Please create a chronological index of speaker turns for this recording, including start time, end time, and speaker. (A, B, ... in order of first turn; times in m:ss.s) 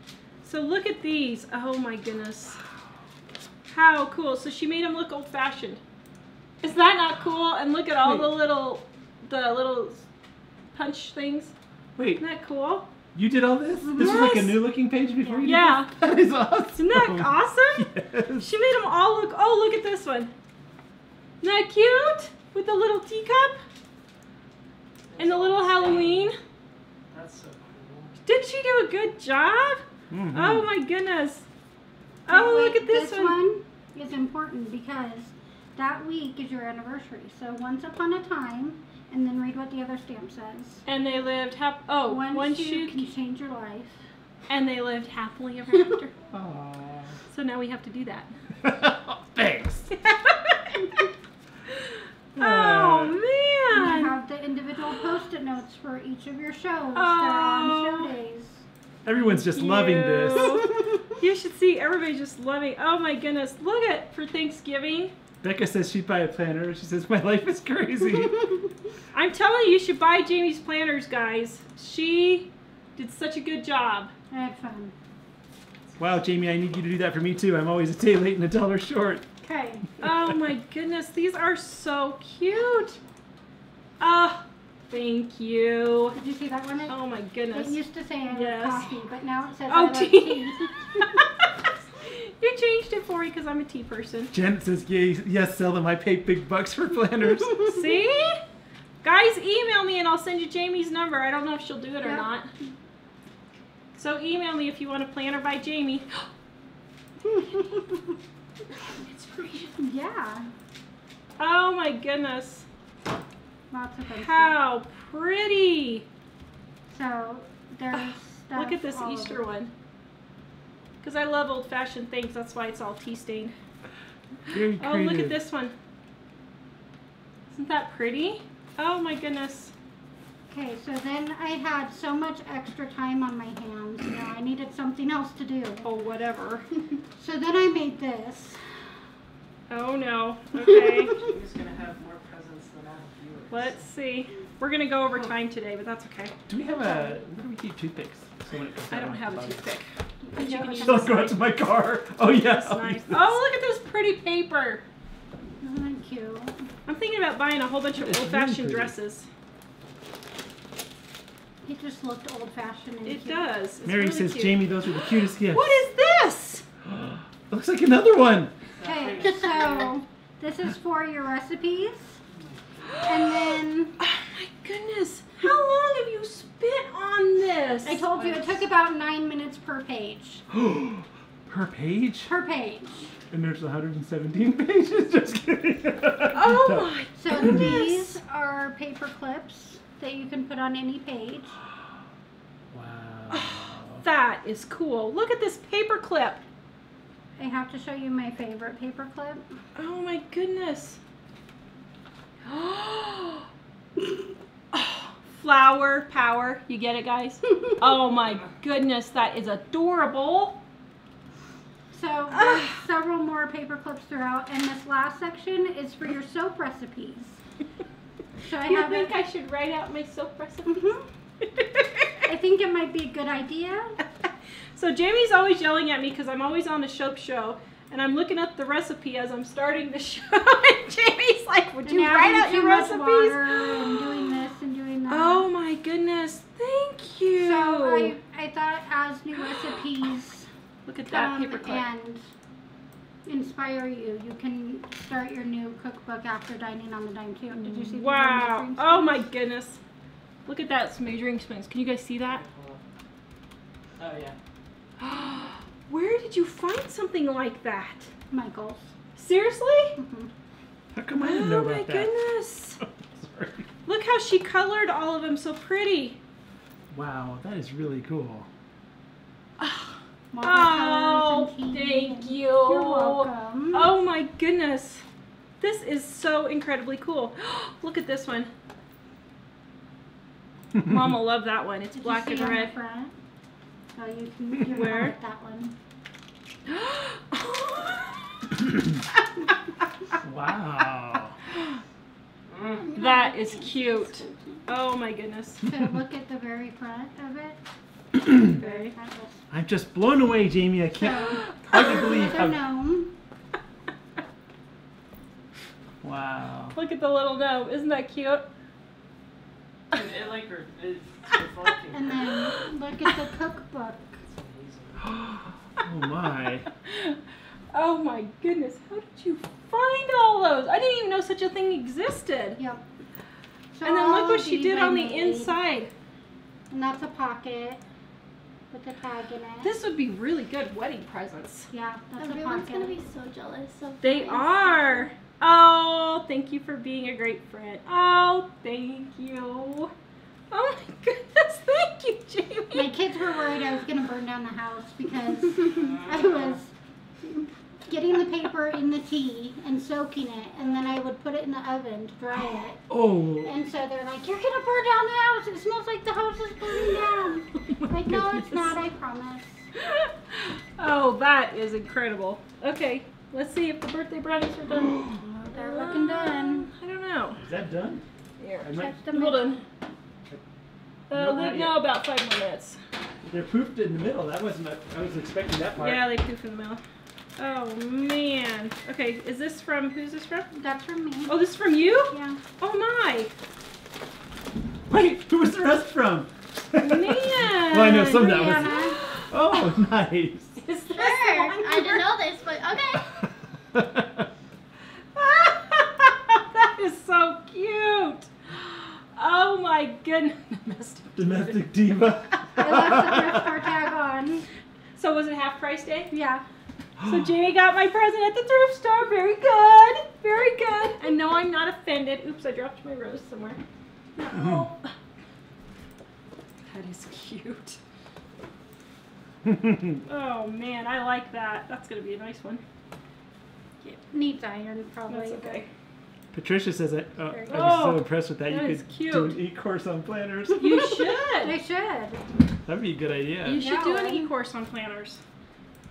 0:00.4-0:02.6 A
0:03.7-0:05.8 A
0:06.6-0:10.0 A
0:08.0-0:08.3 B
0:10.7-0:11.5 A
0:12.0-0:12.2 B
0:12.2-0:12.9 A
0:13.1-0:18.5 B
0:13.9-0:14.6 A
0:15.4-0:15.9 A
0:16.8-0:17.9 A
0:18.4-0:20.3 A
0:21.4-0:23.6 A
0:25.1-0:26.3 C
0:25.2-0:26.4 A
0:27.1-0:28.2 C
0:28.2-0:31.4 A
0:30.1-0:30.7 B
0:32.2-0:40.8 D
0:32.3-0:33.4 A
0:40.8-0:43.0 A
0:42.0-0:44.0 D
0:44.5-0:46.1 A
0:46.3-0:47.2 B
0:47.3-0:48.3 A
0:48.6-0:49.9 B
0:49.9-0:51.0 A
0:52.4-0:53.2 B
0:52.4-0:54.1 A
0:53.7-0:58.6 D
0:56.9-0:58.1 A
0:59.0-1:00.6 B
0:59.2-1:05.1 A
1:05.4-1:08.5 B
1:09.1-1:14.1 A
1:14.3-1:14.9 D
1:16.0-1:19.2 B
1:19.4-1:19.8 D
1:20.0-1:23.0 A
1:20.0-1:20.3 B
1:24.0-1:26.2 A
1:26.1-1:27.0 D
1:26.9-1:28.9 A
1:27.5-1:31.2 D
1:29.7-1:31.5 A
1:32.0-1:34.3 A
1:34.3-1:37.7 B
1:37.6-1:38.4 A
1:39.0-1:42.5 A
1:42.0-1:42.3 D
1:43.9-1:46.2 A
1:47.2-1:48.2 D
1:48.8-1:49.8 A
1:49.8-1:50.5 D
1:51.4-1:52.6 A
1:53.7-1:54.6 D
1:54.1-1:56.0 A
1:56.9-1:59.5 D
1:57.9-1:59.7 A
2:01.0-2:03.5 A
2:04.5-2:05.4 B
2:04.8-2:05.7 A
2:07.5-2:09.7 A
2:10.5-2:15.9 D
2:15.8-2:16.6 A
2:17.2-2:18.6 D
2:19.7-2:21.2 A
2:21.1-2:23.8 C
2:23.5-2:26.3 A
2:26.5-2:29.6 B
2:26.8-2:27.2 D
2:28.9-2:31.4 A
2:30.2-2:31.3 D
2:30.8-2:33.4 B
2:32.4-2:34.8 A
2:35.6-2:36.6 D
2:36.9-2:39.3 A
2:38.0-2:38.9 B
2:41.6-2:43.5 D
2:43.0-2:44.7 A
2:43.8-2:45.8 B
2:45.5-2:46.6 A
2:46.8-2:48.5 B
2:48.8-2:50.0 C
2:48.8-2:52.2 D
2:52.8-2:53.5 A
2:53.0-2:54.0 D
2:54.0-2:58.1 A
2:57.8-3:00.4 D
2:58.2-2:58.5 C
3:00.5-3:02.3 B
3:02.2-3:03.1 D
3:03.3-3:07.6 B
3:06.3-3:08.2 A
3:07.2-3:11.5 D
3:12.7-3:14.0 B
3:13.3-3:16.4 A
3:17.4-3:19.6 D
3:19.7-3:21.0 A
3:22.4-3:23.5 A
3:24.7-3:30.6 A
3:31.9-3:37.4 D
3:32.3-3:32.7 A
3:38.4-3:39.2 D
3:38.6-3:42.3 A
3:40.7-3:41.0 D
3:42.2-3:44.0 D
3:44.2-3:54.4 A
3:51.8-3:55.5 D
3:55.1-3:58.2 A
3:57.4-4:00.5 D
4:00.8-4:01.9 A
4:01.1-4:02.2 D
4:03.2-4:09.2 D
4:07.6-4:09.8 A
4:10.4-4:12.4 A
4:12.2-4:12.8 C
4:14.0-4:14.4 C
4:15.0-4:18.1 A
4:18.3-4:18.9 D
4:19.2-4:20.0 A
4:20.0-4:20.3 D
4:20.9-4:22.1 B
4:21.2-4:22.8 A
4:22.8-4:23.7 B
4:23.8-4:26.2 A
4:26.9-4:28.5 B
4:29.6-4:35.0 A
4:30.3-4:33.9 D
4:35.6-4:38.5 A
4:40.8-4:42.7 A
4:42.0-4:43.1 D
4:43.9-4:45.7 D
4:44.6-4:45.1 A
4:46.7-4:48.2 A
4:50.2-4:51.3 B
4:52.5-4:53.1 C
4:52.9-4:54.3 D
4:52.9-4:55.6 A
4:55.6-4:57.6 D
4:58.2-4:58.5 B
4:58.3-4:59.4 D
4:58.5-4:58.9 A
4:59.5-5:02.6 B
5:01.0-5:03.1 D
5:01.1-5:02.2 A
5:06.0-5:06.8 B
5:06.7-5:08.5 A
5:09.9-5:12.2 C
5:11.9-5:14.2 D
5:14.2-5:15.2 C
5:15.0-5:16.7 B
5:16.8-5:17.2 A
5:17.7-5:22.6 A
5:22.6-5:22.8 D
5:23.7-5:25.6 D
5:23.8-5:25.9 A
5:26.7-5:27.8 D
5:28.7-5:29.7 D
5:29.6-5:31.7 A
5:31.7-5:33.0 D
5:32.2-5:35.0 E
5:34.0-5:39.9 A
5:40.5-5:42.9 A
5:42.7-5:46.7 D
5:45.6-5:46.6 C
5:47.2-5:52.8 D
5:52.9-5:53.6 B
5:53.4-5:59.6 D
5:57.8-5:58.7 A
5:59.8-6:07.4 A
6:05.2-6:06.7 D
6:07.4-6:08.0 B
6:08.4-6:09.6 A
6:08.6-6:09.0 B
6:08.7-6:09.6 D
6:11.1-6:12.8 A
6:11.1-6:11.8 B
6:13.3-6:16.0 B
6:15.8-6:16.8 A
6:17.4-6:20.5 A
6:20.5-6:21.4 D
6:21.2-6:23.3 A
6:22.1-6:22.4 D
6:24.9-6:30.6 B
6:26.8-6:29.1 A
6:28.1-6:29.0 D
6:30.6-6:32.1 A
6:30.9-6:33.3 E
6:31.0-6:31.8 D
6:33.7-6:34.3 B
6:35.1-6:41.6 A
6:41.2-6:43.5 B
6:42.6-6:44.4 D
6:45.0-6:46.1 A
6:46.1-6:46.4 D
6:47.0-6:47.3 B
6:47.0-6:53.6 A
6:54.2-6:54.9 A
6:54.3-6:54.6 B
6:56.7-6:57.8 A
6:59.4-7:00.0 B
7:00.1-7:02.6 A
7:03.8-7:05.6 D
7:05.1-7:05.7 A
7:06.3-7:10.7 B
7:07.5-7:09.4 A
7:10.6-7:11.6 A
7:11.4-7:12.2 D
7:12.6-7:13.6 B
7:13.4-7:15.2 A
7:13.6-7:14.3 D